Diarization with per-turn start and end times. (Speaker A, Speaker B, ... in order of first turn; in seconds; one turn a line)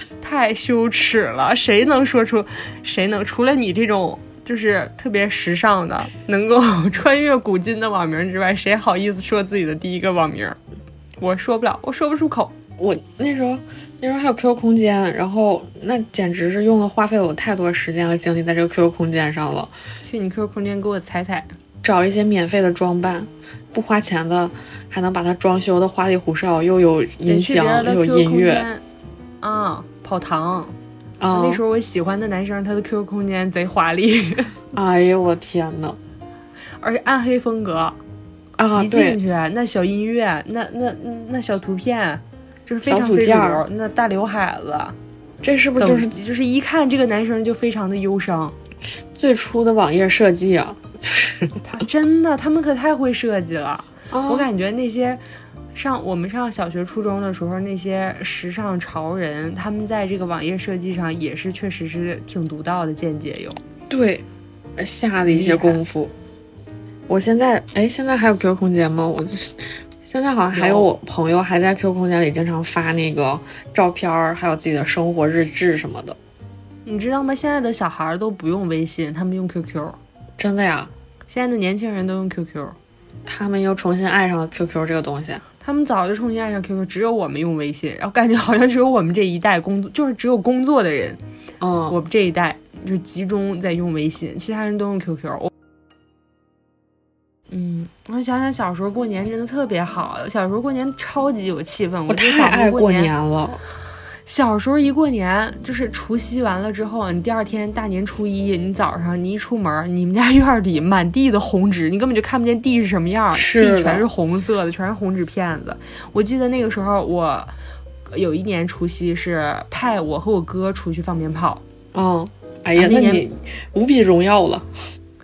Speaker A: 0.2-10.6
Speaker A: 11.2-12.5
Speaker B: 12.8-19.7
Speaker A: 20.1-21.5
Speaker B: 21.8-28.7
Speaker A: 27.2-28.8
Speaker A: 29.4-30.8
Speaker B: 31.2-31.6
Speaker A: 31.3-34.5
Speaker B: 34.7-36.0
Speaker A: 36.8-38.0
Speaker B: 38.6-39.2
Speaker A: 38.8-45.0
Speaker B: 42.9-43.6
Speaker B: 45.4-46.1
Speaker A: 45.8-48.6
Speaker B: 49.1-51.6
Speaker A: 51.6-55.2
Speaker B: 54.1-54.5
Speaker A: 55.7-63.6
Speaker B: 63.9-64.2
Speaker B: 64.8-66.1
Speaker A: 65.2-65.8
Speaker B: 67.1-76.2
Speaker A: 70.5-70.9
Speaker A: 76.9-80.0
Speaker B: 80.4-80.9
Speaker A: 81.3-82.8
Speaker B: 83.3-85.4
Speaker A: 85.6-91.2
Speaker B: 91.6-92.0
Speaker A: 91.9-95.5
Speaker A: 97.5-103.1
Speaker B: 102.1-103.6
Speaker A: 104.3-117.5
Speaker B: 113.3-114.1
Speaker A: 118.1-121.6
Speaker B: 121.9-124.7
Speaker A: 122.8-123.2